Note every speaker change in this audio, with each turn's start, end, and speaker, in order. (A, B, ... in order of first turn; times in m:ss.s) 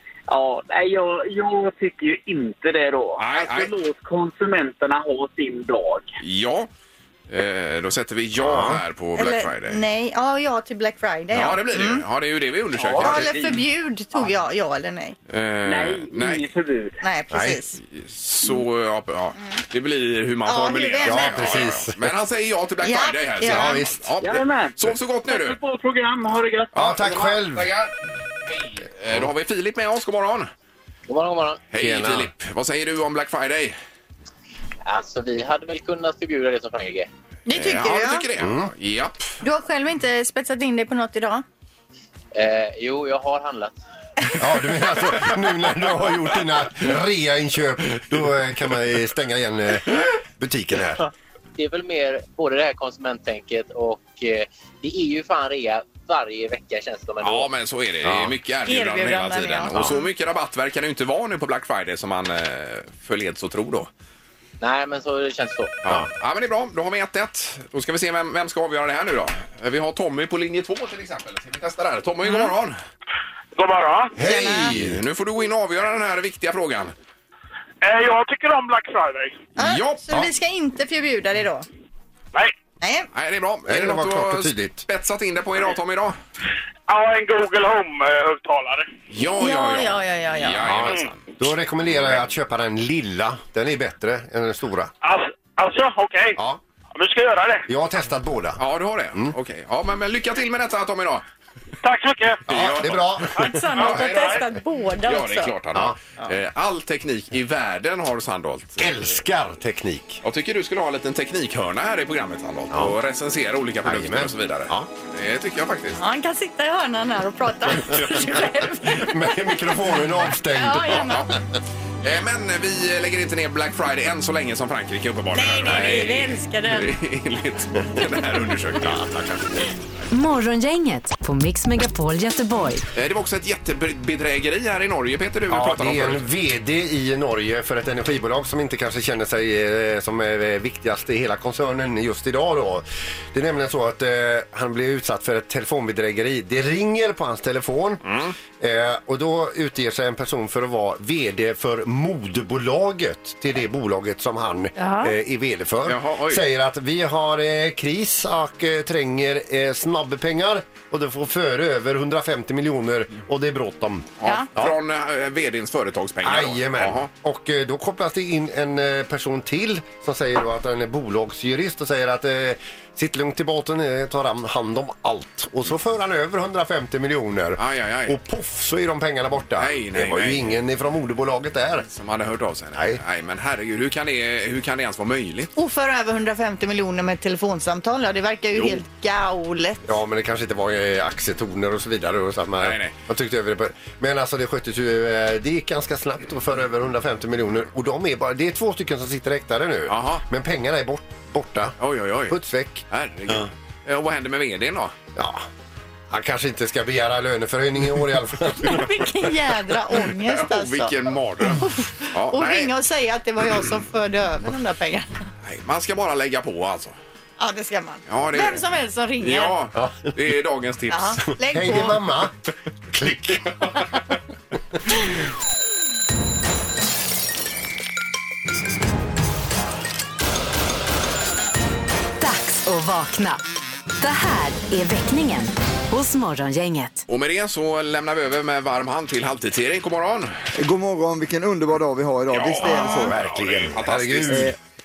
0:00.3-0:06.1 A
0:03.2-0:03.7 B
0:06.2-0:06.7 B
0:07.3-0:09.8 B
0:08.4-0:08.8 C
0:09.2-0:12.0 D
0:11.3-0:13.4 B
0:12.8-0:13.6 A
0:13.0-0:15.2 D
0:15.3-0:16.5 B
0:15.6-0:17.0 A
0:17.0-0:17.8 D
0:17.3-0:17.6 C
0:17.8-0:25.6 B
0:20.4-0:21.6 D
0:21.0-0:22.1 C
0:22.8-0:23.8 D
0:23.4-0:24.1 C
0:24.2-0:27.1 A
0:26.7-0:27.7 C
0:26.7-0:27.9 B
0:28.4-0:30.5 B
0:31.1-0:31.6 E
0:31.7-0:33.8 B
0:31.8-0:32.3 C
0:34.8-0:37.1 E
0:37.5-0:38.2 D
0:37.5-0:39.4 B
0:38.4-0:38.7 C
0:39.4-0:41.4 D
0:42.3-0:43.8 E
0:44.4-0:51.0 C
0:51.6-0:57.5 E
0:57.2-1:03.9 B
0:58.0-0:58.4 C
0:58.7-1:00.1 D
1:04.6-1:05.8 E
1:05.8-1:12.8 B
1:12.2-1:12.5 D
1:13.6-1:14.1 F
1:14.2-1:14.7 D
1:14.2-1:15.0 C
1:14.2-1:16.9 B
1:17.8-1:19.4 F
1:19.6-1:21.6 D
1:19.6-1:20.2 B
1:22.8-1:23.1 D
1:23.1-1:26.2 B
1:23.6-1:24.8 C
1:26.9-1:28.9 F
1:29.1-1:31.3 B
1:29.4-1:30.6 D
1:30.6-1:34.9 C
1:35.0-1:36.4 F
1:36.9-1:37.6 F
1:37.7-1:38.6 C
1:38.6-1:41.2 B
1:41.8-1:42.4 F
1:42.5-1:49.1 B
1:42.5-1:43.6 C
1:43.4-1:45.5 D
1:43.8-1:44.4 F
1:48.8-1:50.2 C
1:50.2-1:56.0 B
1:53.8-1:54.9 C
1:56.0-1:59.2 D
1:58.8-2:01.4 C
2:00.5-2:01.3 D
2:00.9-2:01.3 B
2:02.0-2:09.6 B
2:05.3-2:06.9 D
2:08.8-2:09.3 C
2:10.1-2:12.8 G
2:12.9-2:16.2 B
2:15.5-2:28.0 C
2:28.0-2:28.3 B
2:28.6-2:44.7 C
2:34.8-2:35.1 D
2:35.8-2:36.4 B
2:44.2-2:47.1 B
2:46.2-3:01.9 C
2:57.6-2:58.2 B
2:59.6-3:00.6 B
3:01.9-3:05.5 B
3:02.7-3:03.0 C
3:05.6-3:09.8 D
3:09.8-3:23.5 C
3:12.6-3:12.9 B
3:19.9-3:20.2 B
3:21.8-3:22.4 B
3:22.9-3:24.9 B
3:25.1-3:25.4 C
3:26.1-3:28.9 C
3:28.6-3:35.1 D
3:30.2-3:32.7 B
3:35.4-3:36.9 B
3:37.4-3:39.5 D
3:38.1-3:38.6 B
3:39.2-3:41.3 B
3:39.7-3:40.1 C
3:40.9-3:42.0 D
3:41.5-3:42.3 C
3:42.9-3:43.7 C
3:52.2-3:53.4 G
3:54.0-3:57.0 G
3:57.1-4:00.3 B
4:00.6-4:03.2 H
4:02.3-4:04.5 B
4:02.8-4:04.5 C
4:04.3-4:04.5 H